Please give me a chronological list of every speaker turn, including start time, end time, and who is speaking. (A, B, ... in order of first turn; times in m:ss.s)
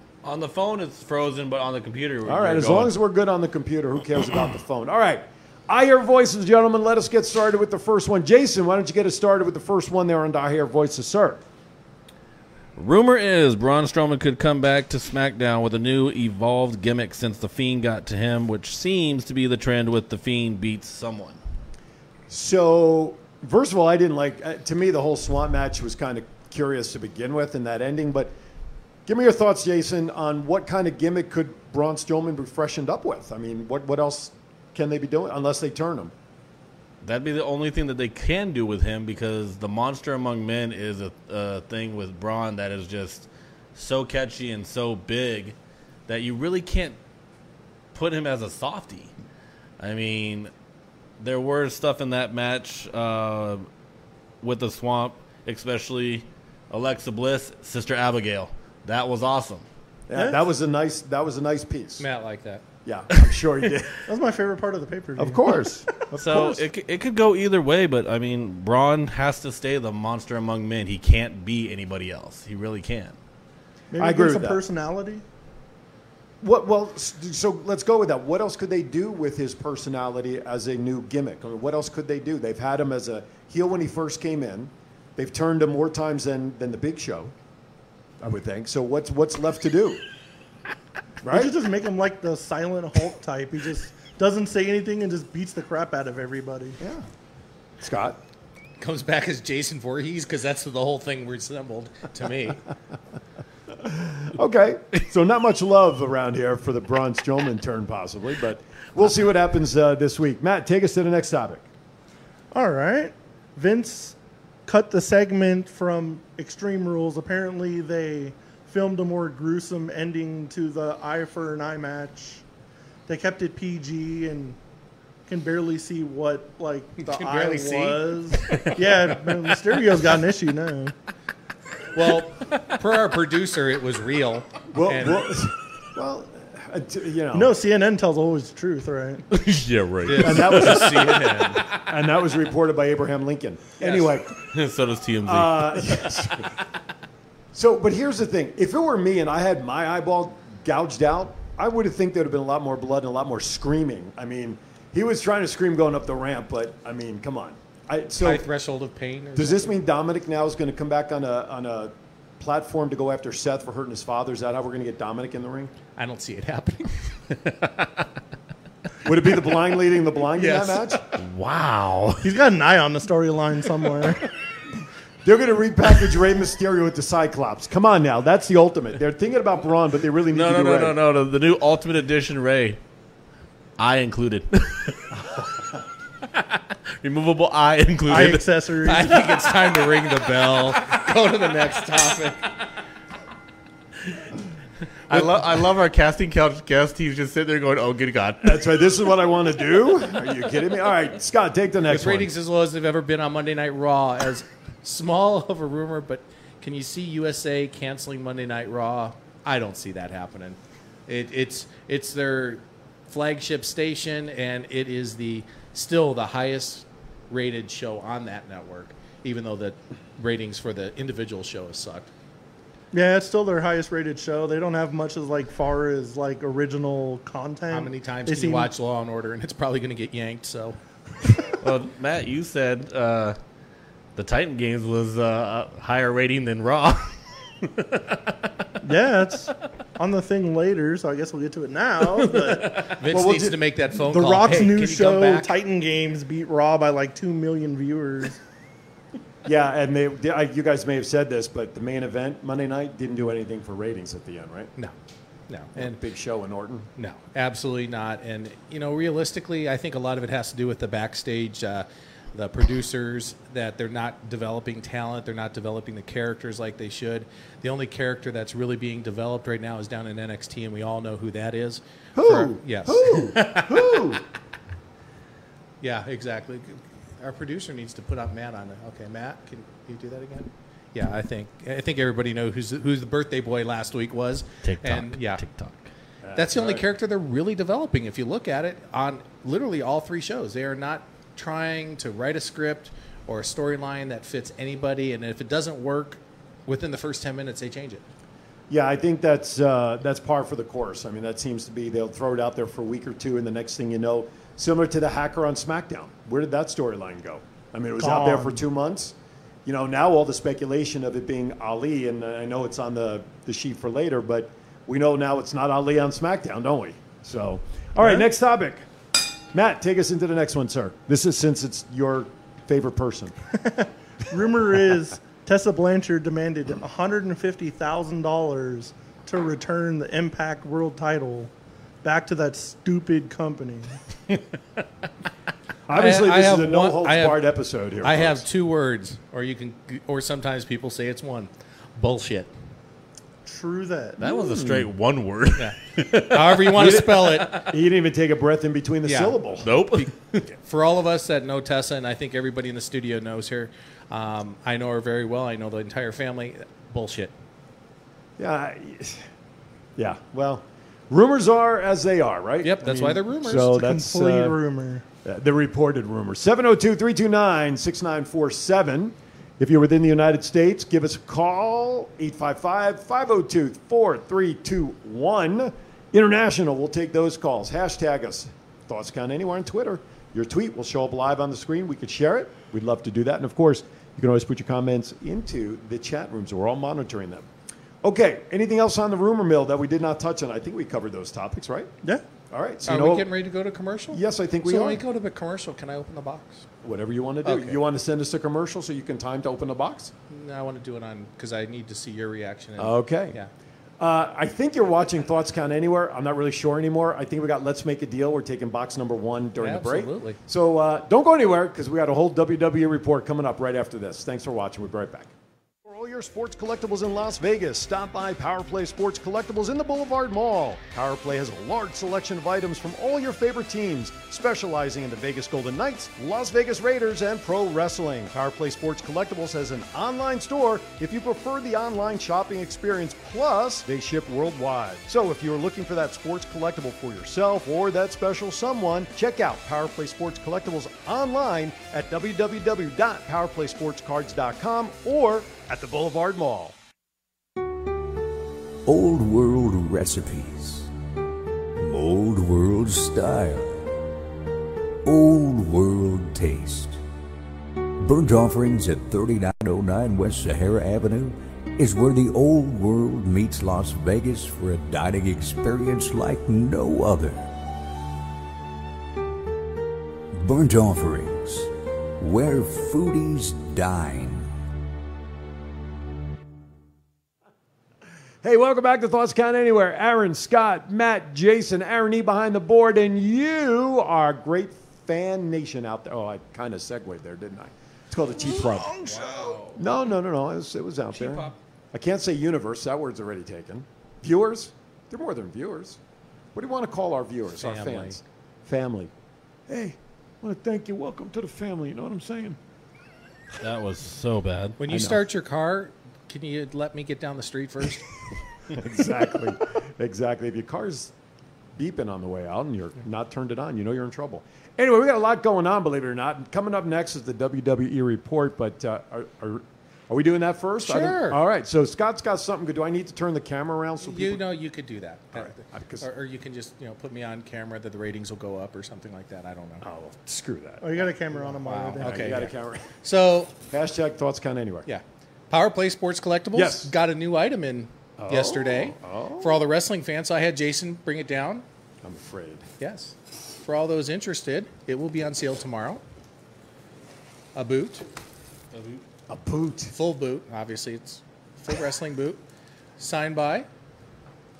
0:00.2-0:02.9 A
0:02.2-0:11.4 B
0:12.8-0:21.4 A
0:22.3-0:28.3 B
0:29.0-0:36.1 B
0:37.0-0:45.6 A
0:46.1-0:47.0 A
0:47.9-0:49.1 A
0:49.8-0:50.5 A
0:51.2-0:53.7 A
0:54.4-0:59.6 A
1:00.1-1:02.0 B
1:00.1-1:00.4 C
1:02.0-1:02.6 D
1:02.8-1:04.0 B
1:04.1-1:05.5 C
1:05.2-1:06.6 B
1:06.1-1:06.6 C
1:06.1-1:13.2 A
1:13.9-1:15.2 C
1:13.9-1:14.6 B
1:16.4-1:27.3 B
1:28.2-1:30.0 B
1:31.2-1:31.5 B
1:31.3-1:36.8 C
1:36.8-1:37.1 B
1:37.8-1:38.2 B
1:38.8-1:42.6 D
1:43.7-1:51.6 B
1:52.5-2:02.4 C
2:03.1-2:04.6 C
2:05.3-2:10.9 C
2:07.0-2:08.6 D
2:08.5-2:09.1 A
2:11.9-2:15.3 D
2:14.7-2:17.5 B
2:17.3-2:19.2 C
2:19.3-2:21.7 A
2:20.1-2:21.7 D
2:20.2-2:24.3 B
2:23.8-2:24.1 D
2:24.4-2:26.2 A
2:25.2-2:26.5 B
2:27.5-2:38.5 B
2:38.2-2:39.8 D
2:39.4-2:45.7 B
2:46.0-2:47.0 D
2:49.0-2:51.0 B
2:50.3-2:51.0 D
2:51.2-2:52.3 A
2:52.2-2:54.2 C
2:55.2-3:01.0 B
3:00.3-3:02.8 A
3:03.8-3:05.2 A
3:06.3-3:10.2 A
3:08.1-3:09.3 C
3:08.8-3:12.5 D
3:15.1-3:19.0 A
3:18.4-3:22.3 B
3:21.9-3:42.1 D
3:42.9-3:48.7 C
3:47.7-3:50.8 D
3:51.6-3:53.4 A
3:54.2-3:58.5 A
3:58.8-4:02.8 C
4:02.0-4:03.0 A
4:03.0-4:05.5 D
4:03.1-4:03.6 B
4:04.0-4:08.4 C
4:09.4-4:14.7 B
4:15.5-4:16.0 D
4:15.7-4:16.9 B
4:17.0-4:34.2 D
4:32.1-4:34.2 B
4:35.8-4:45.4 D
4:44.6-4:45.9 A
4:46.2-4:46.8 B
4:46.3-4:58.0 D
4:58.7-5:18.9 B
5:08.0-5:08.6 C
5:19.5-5:23.4 B
5:23.6-5:31.5 C
5:32.0-5:34.0 C
5:35.9-5:38.4 B
5:35.9-5:37.4 D
5:38.0-5:42.5 D
5:43.4-5:44.2 C
5:44.2-5:47.7 A
5:44.2-5:44.9 B
5:45.6-5:47.6 D
5:46.7-5:49.7 B
5:49.0-5:49.4 D
5:49.6-5:50.4 A
5:49.9-5:57.3 D
5:58.4-5:59.3 B
6:00.0-6:04.6 B
6:02.6-6:03.8 D
6:03.7-6:05.0 C
6:05.2-6:27.4 B
6:28.0-6:31.9 B
6:32.5-6:33.3 B
6:32.8-6:36.6 D
6:34.1-6:35.0 B
6:36.8-6:40.1 B
6:37.4-6:37.8 D
6:40.3-6:43.5 D
6:42.8-6:43.4 B
6:44.0-6:55.3 B
6:49.6-6:50.4 D
6:55.8-7:26.8 B
7:28.8-7:30.9 E
7:31.8-7:33.9 E
7:35.0-7:37.0 E
7:38.0-7:47.5 E
7:50.3-7:54.5 E
7:58.4-8:09.1 B
8:08.4-8:09.6 C
8:09.0-8:09.8 A
8:09.7-8:16.0 B
8:11.1-8:11.6 A
8:16.5-8:19.1 B
8:17.6-8:18.2 D
8:19.7-8:22.6 B
8:23.6-8:24.8 A
8:24.8-8:28.0 D
8:24.9-8:25.2 B
8:28.7-8:31.1 B
8:31.8-8:44.4 B
8:40.8-8:41.4 D
8:44.0-8:49.8 D
8:45.3-8:46.1 B
8:49.8-8:52.9 B
8:50.8-8:52.5 C
8:51.6-8:52.5 D
8:53.0-8:53.5 D
8:53.7-8:54.9 B
8:54.8-9:01.6 D
8:56.5-8:56.9 B
8:58.2-8:59.6 B
9:02.0-9:02.6 B
9:02.8-9:06.0 D
9:07.5-9:08.0 D
9:08.7-9:09.0 A
9:09.3-9:09.9 B
9:09.9-9:12.4 D
9:13.0-9:13.7 D